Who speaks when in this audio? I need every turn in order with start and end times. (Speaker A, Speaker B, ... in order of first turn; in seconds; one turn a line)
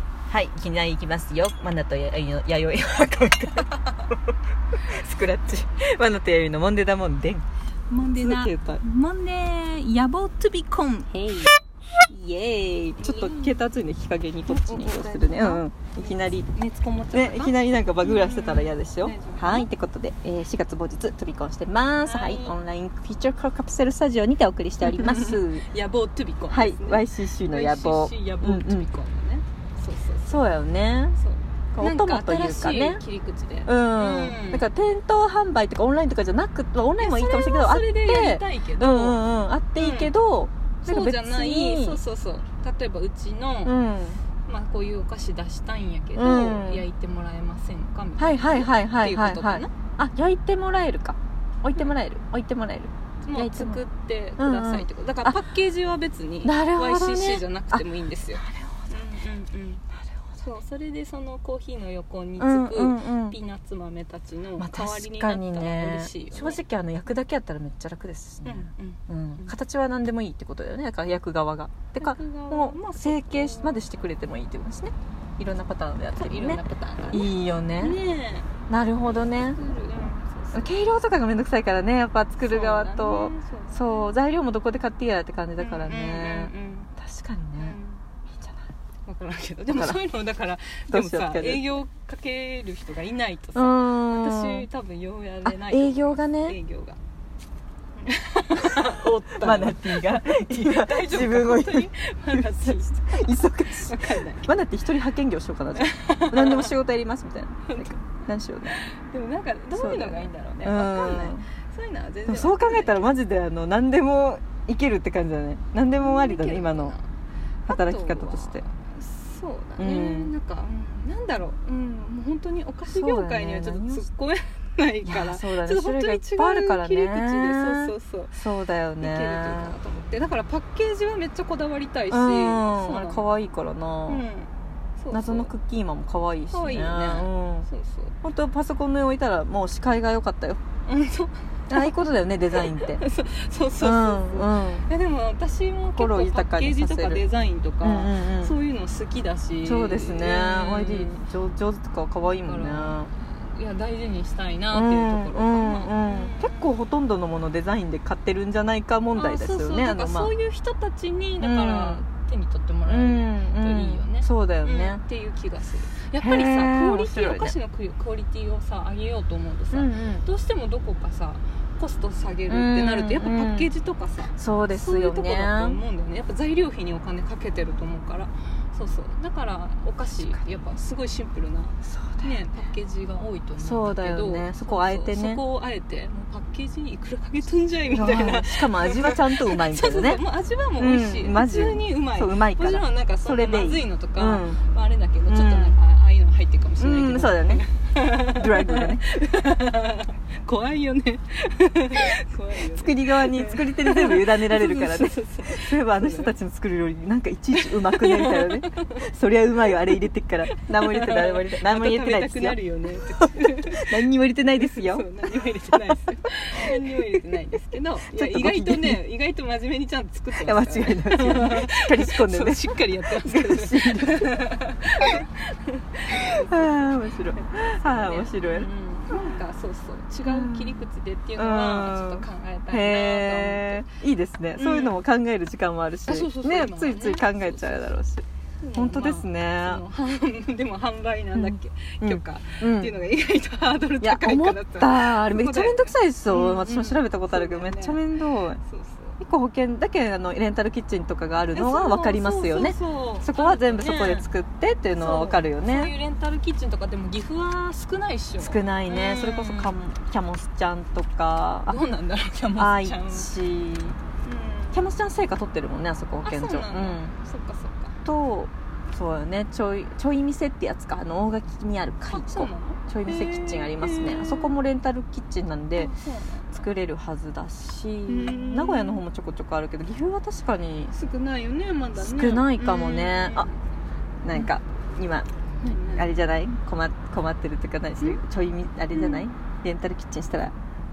Speaker A: 0.3-4.2
Speaker A: 4.8-7.4
Speaker B: 7.9-11.4
Speaker A: 8.1-8.8
Speaker A: 11.1-11.5
Speaker A: 12.1-16.5
Speaker B: 13.0-13.7
Speaker B: 14.4-19.7
Speaker A: 17.1-25.6
Speaker B: 22.0-22.6
Speaker B: 24.8-30.5
Speaker A: 26.5-28.9
Speaker A: 30.2-31.2
Speaker B: 31.2-34.6
Speaker A: 31.7-33.0
Speaker A: 33.6-42.0
Speaker B: 37.0-39.2
Speaker B: 39.8-40.1
Speaker B: 40.8-43.8
Speaker A: 43.6-44.2
Speaker B: 44.4-49.7
Speaker A: 46.1-46.8
Speaker A: 48.2-53.8
Speaker B: 53.2-59.8
Speaker A: 54.4-55.4
Speaker A: 56.4-59.0
Speaker B: 60.4-66.6
Speaker A: 62.4-63.4
Speaker A: 64.6-78.0
Speaker B: 68.4-69.5
Speaker B: 72.0-73.8
Speaker B: 76.1-78.5
Speaker A: 78.7-79.6
Speaker B: 79.2-80.7
Speaker A: 80.5-87.8
Speaker B: 82.4-84.1
Speaker B: 85.6-86.9
Speaker B: 87.6-88.0
Speaker A: 88.3-88.6
Speaker B: 89.1-97.0
Speaker A: 89.7-90.0
Speaker A: 90.9-91.7
Speaker A: 93.5-94.7
Speaker A: 95.4-96.6
Speaker B: 98.0-104.5
Speaker A: 98.7-108.8
Speaker B: 105.7-106.7
Speaker B: 107.7-108.0
Speaker B: 108.7-113.2
Speaker A: 109.7-111.5
Speaker A: 112.2-116.9
Speaker B: 116.0-117.0
Speaker B: 117.7-128.4
Speaker A: 117.7-118.6
Speaker A: 119.8-120.3
Speaker A: 122.8-124.0
Speaker A: 125.0-129.8
Speaker B: 129.0-133.2
Speaker A: 132.1-134.2
Speaker B: 134.1-135.5
Speaker A: 135.1-137.7
Speaker B: 136.5-138.1
Speaker A: 138.2-140.6
Speaker B: 140.8-151.2
Speaker A: 141.7-143.0
Speaker A: 143.8-144.9
Speaker A: 145.9-147.2
Speaker A: 147.8-148.6
Speaker A: 149.6-153.1
Speaker B: 152.2-156.8
Speaker A: 154.7-160.3
Speaker B: 159.1-206.3
Speaker A: 161.4-162.0
Speaker A: 162.8-165.0
Speaker A: 166.2-167.5
Speaker A: 169.7-170.2
Speaker A: 172.5-173.7
Speaker A: 174.4-175.8
Speaker A: 181.8-182.3
Speaker A: 183.6-185.4
Speaker A: 187.9-190.2
Speaker A: 190.8-194.6
Speaker A: 195.3-195.8
Speaker A: 196.8-197.6
Speaker A: 198.3-199.1
Speaker A: 202.6-215.1
Speaker B: 207.5-209.0
Speaker B: 210.5-233.8
Speaker A: 216.6-217.3
Speaker A: 218.1-219.0
Speaker A: 220.3-224.4
Speaker A: 226.1-229.3
Speaker A: 230.3-230.8
Speaker A: 231.4-239.8
Speaker B: 234.6-235.0
Speaker B: 236.1-237.9
Speaker B: 238.6-249.2
Speaker A: 241.3-242.9
Speaker A: 244.0-248.6
Speaker A: 249.2-255.9
Speaker B: 251.5-254.3
Speaker B: 254.9-259.8
Speaker A: 258.4-261.8
Speaker B: 261.7-263.3
Speaker A: 262.6-264.0
Speaker B: 264.2-264.8
Speaker A: 264.7-267.1
Speaker B: 266.2-268.0
Speaker A: 268.0-275.9
Speaker B: 272.1-274.6
Speaker B: 275.8-276.6
Speaker A: 276.5-280.9
Speaker B: 278.1-279.0
Speaker B: 280.9-283.6
Speaker A: 281.9-283.5
Speaker A: 284.2-285.3
Speaker B: 285.6-286.1
Speaker A: 285.9-290.5
Speaker B: 288.9-289.2